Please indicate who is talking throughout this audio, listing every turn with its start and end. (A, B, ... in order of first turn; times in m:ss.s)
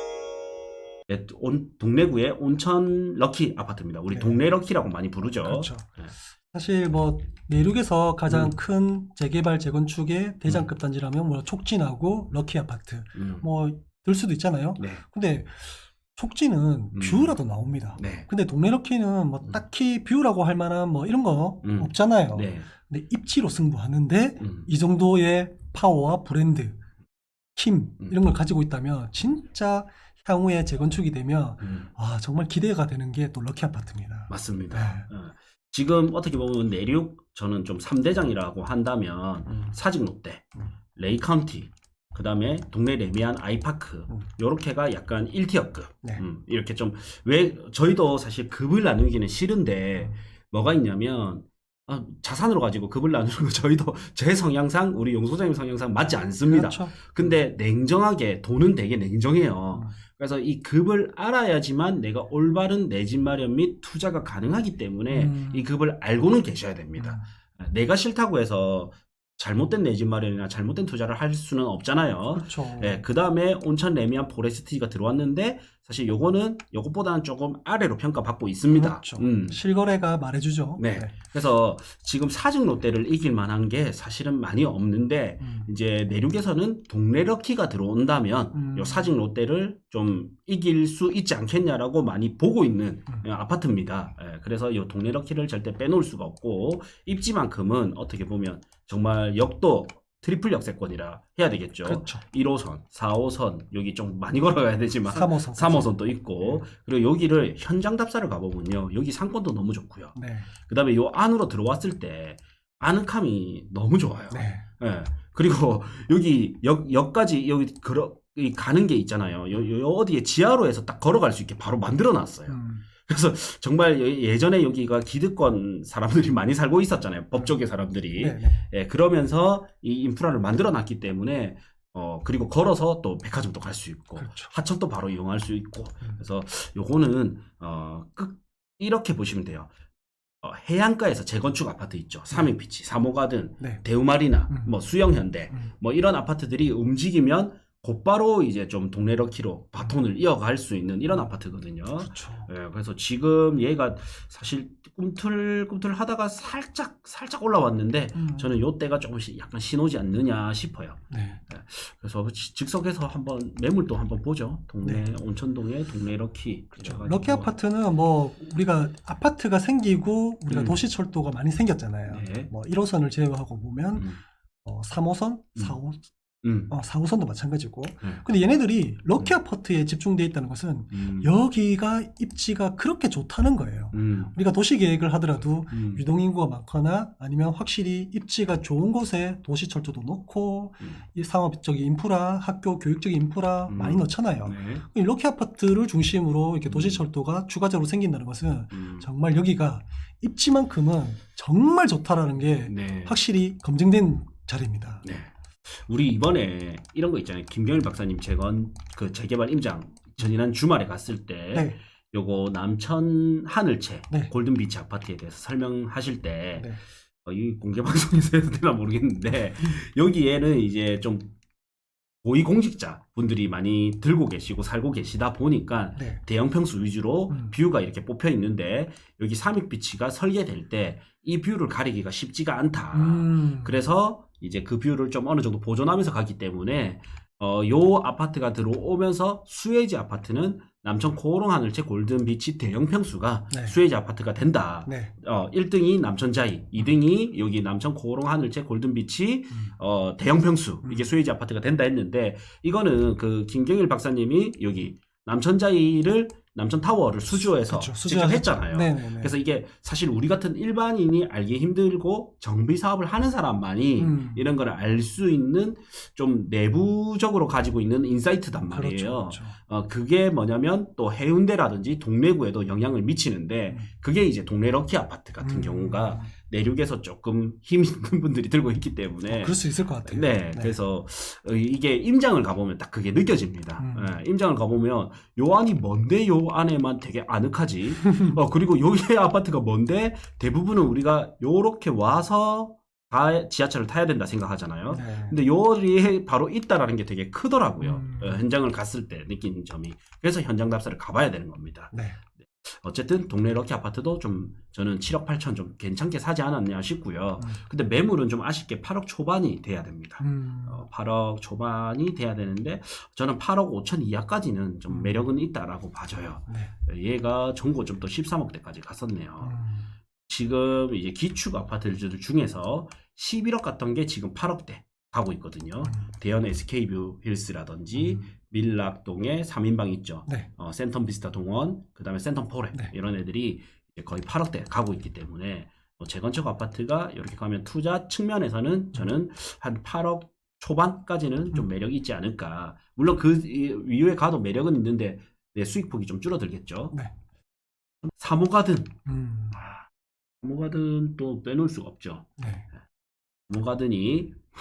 0:01.1-0:06.1 A
0:04.1-0:04.4 B
0:05.4-0:05.9 B
0:06.5-0:26.8 B
0:08.3-0:08.5 A
0:13.1-0:13.5 A
0:16.9-0:17.4 A
0:18.0-0:18.3 A
0:21.6-0:22.7 A
0:24.4-0:24.7 A
0:27.6-0:35.1 B
0:31.6-0:31.9 A
0:34.3-1:19.6 A
0:56.5-0:57.3 B
1:05.1-1:05.7 B
1:07.0-1:07.2 B
1:12.3-1:13.0 B
1:18.7-1:21.2 B
1:20.8-2:19.7 A
1:25.4-1:25.7 B
1:28.5-1:29.1 B
1:41.8-1:42.2 B
1:45.1-1:46.6 B
1:50.2-1:50.5 B
1:54.3-1:54.7 B
2:02.5-2:02.8 B
2:08.2-2:08.6 B
2:14.2-2:14.5 B
2:20.4-2:47.5 A
2:23.6-2:23.8 B
2:24.5-2:24.8 B
2:32.0-2:32.5 B
2:38.2-2:38.5 B
2:41.1-2:41.4 B
2:44.8-2:45.1 B
2:46.8-2:54.1 B
2:50.5-2:50.8 A
2:52.1-2:52.5 A
2:54.6-2:56.0 B
2:56.4-2:56.7 A
2:56.7-3:25.0 B
3:00.9-3:01.3 A
3:03.9-3:04.3 A
3:05.7-3:06.0 A
3:13.7-3:14.8 A
3:16.7-3:17.0 A
3:18.7-3:19.1 A
3:22.7-3:23.2 A
3:25.0-3:36.7 A
3:36.6-3:36.8 B
3:37.2-3:41.3 A
3:42.2-5:01.9 A
3:46.0-3:46.2 B
3:47.3-3:47.6 B
3:52.9-3:53.8 B
4:03.5-4:03.8 B
4:04.9-4:05.1 B
4:17.3-4:19.4 B
4:24.0-4:24.5 B
4:28.6-4:29.6 B
4:35.4-4:36.3 B
4:39.3-4:40.8 B
4:43.8-4:44.2 B
4:54.9-4:55.4 B
4:57.8-4:58.4 B
5:01.9-5:02.2 B
5:02.4-5:19.6 A
5:10.2-5:10.9 B
5:14.9-5:15.2 B
5:19.4-5:19.9 B
5:20.3-5:47.0 A
5:25.8-5:26.1 B
5:27.9-5:28.2 B
5:48.2-5:49.0 A
5:49.1-5:49.6 B
5:50.4-5:52.3 A
5:52.4-5:52.7 B
5:53.5-5:54.4 A